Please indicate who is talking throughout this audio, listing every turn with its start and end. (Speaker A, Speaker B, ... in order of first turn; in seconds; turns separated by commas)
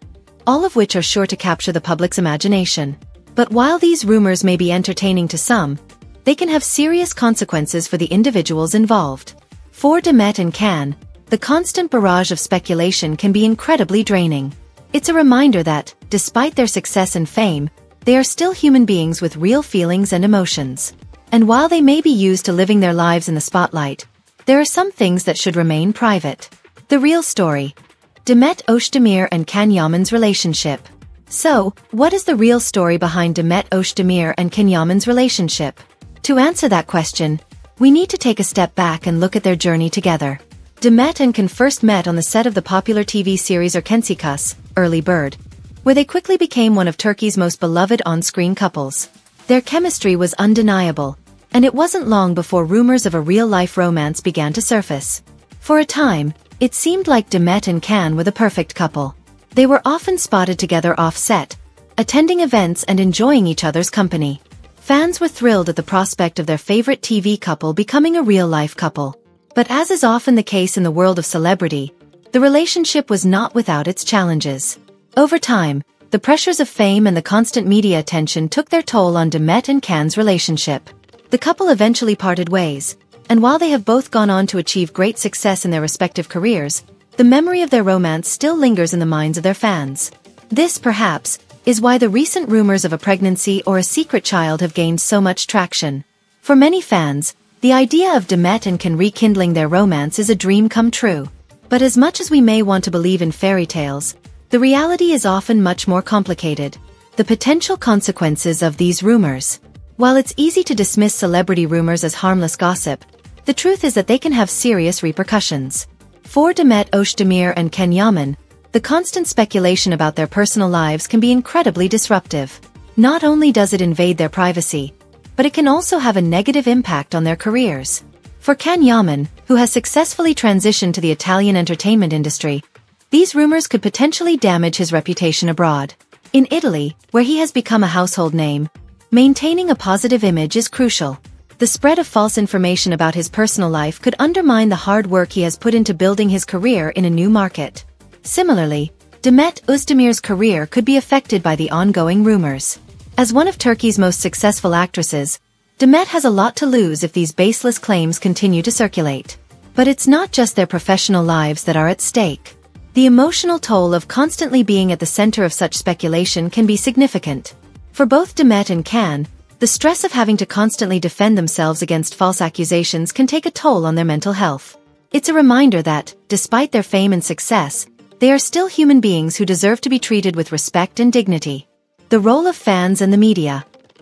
Speaker A: 0.5-183.7